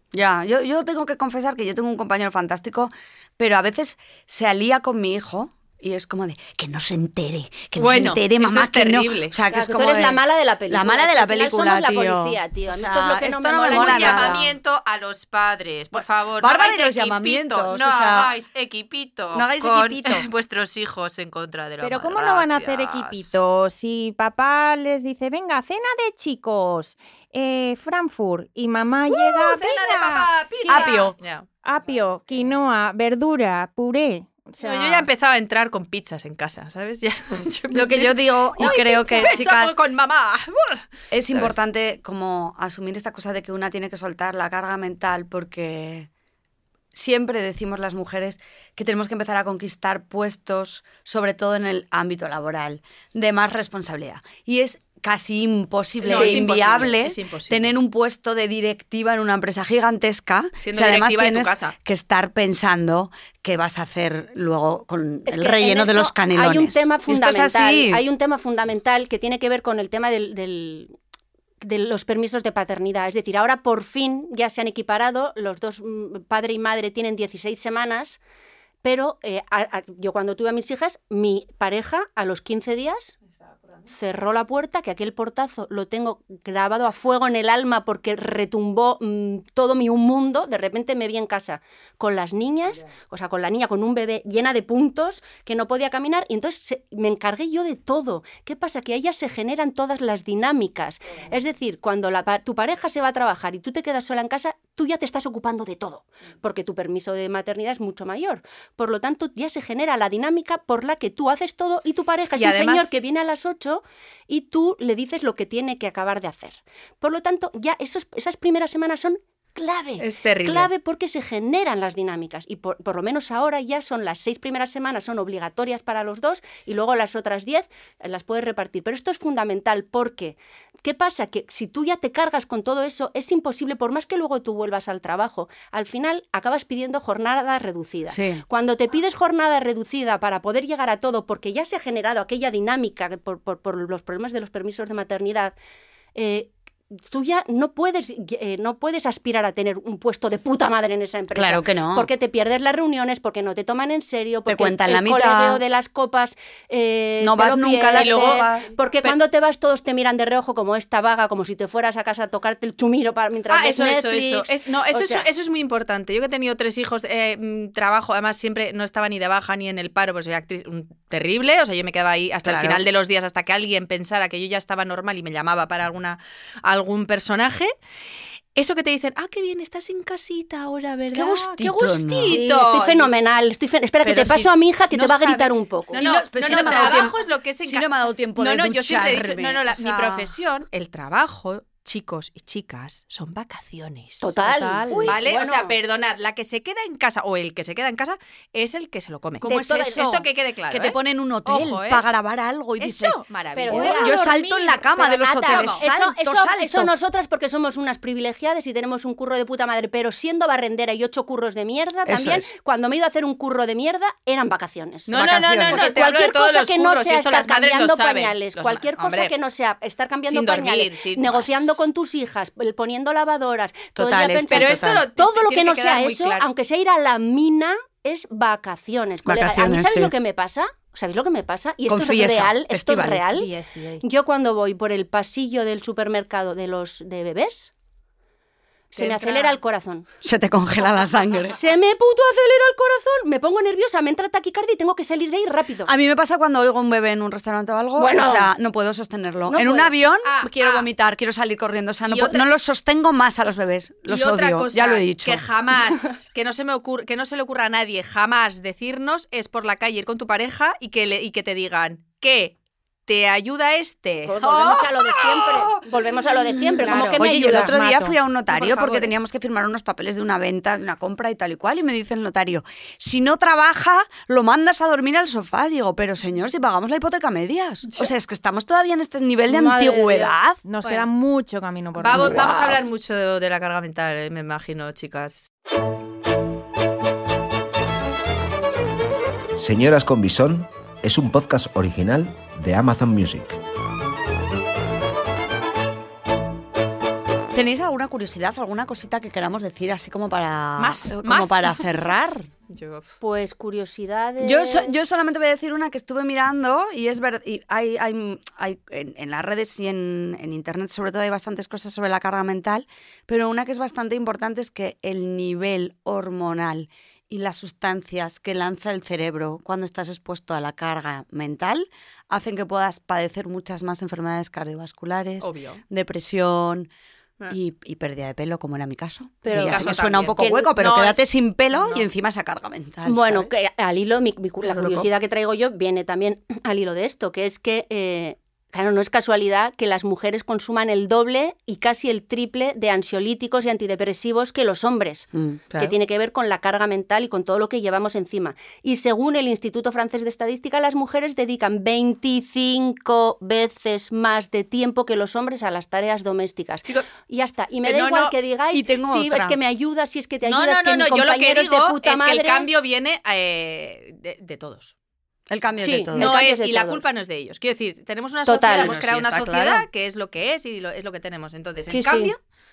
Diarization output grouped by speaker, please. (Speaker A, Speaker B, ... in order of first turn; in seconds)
Speaker A: 0.1-14.6, 15.9-18.3, 19.3-20.3, 30.7-31.1, 37.7-39.8, 41.1-46.1, 46.9-68.0, 138.1-138.4, 151.3-152.1, 154.4-155.6, 157.2-158.7, 172.4-172.8, 181.1-182.3, 184.0-190.3, 199.4-206.9, 212.1-212.5, 215.1-215.8, 223.9-225.0, 229.2-230.1, 231.9-233.2, 240.2-241.6, 245.8-255.4, 267.1-280.6, 282.1-282.8, 297.5-302.5, 304.4-326.9, 327.5-333.5, 345.3-345.6, 357.9-359.6, 365.5-366.4, 368.7-369.9
Speaker B: 7.8-9.3, 13.7-23.3, 29.1-31.5, 34.6-41.6, 56.0-57.7, 60.6-61.7, 112.3-112.9, 120.0-120.7, 157.9-159.2, 163.5-177.7, 178.6-183.2, 185.9-194.4, 194.9-202.0, 202.8-204.4, 205.4-205.8, 215.1-219.3, 220.3-221.8, 224.5-226.5, 238.9-239.6, 250.2-250.9, 252.1-252.4, 254.1-262.6, 263.1-266.8, 268.5-269.1, 280.8-281.1, 281.9-285.5, 300.8-302.1, 302.7-303.1, 325.4-325.8, 329.5-332.1, 334.6-335.1, 360.4-364.9, 366.1-372.4
Speaker C: 9.5-14.3, 56.0-56.4, 65.2-71.0, 71.6-78.2, 78.8-83.2, 83.9-145.5, 146.1-146.5, 147.1-165.2, 182.3-186.0, 186.6-186.9, 194.2-195.8, 199.4-200.1, 203.5-233.5, 234.0-237.7, 238.9-240.1, 241.5-245.9, 248.0-248.5, 249.5-249.9, 264.2-267.7, 279.5-280.3, 303.2-304.9, 329.4-330.7, 333.0-362.7, 365.8-367.0, 368.4-368.9, 371.9-372.3
Speaker D: 21.8-30.9, 31.6-35.1, 38.6-39.4, 194.3-195.1, 233.1-234.0, 266.8-268.1, 280.6-282.5
Speaker E: 289.6-293.6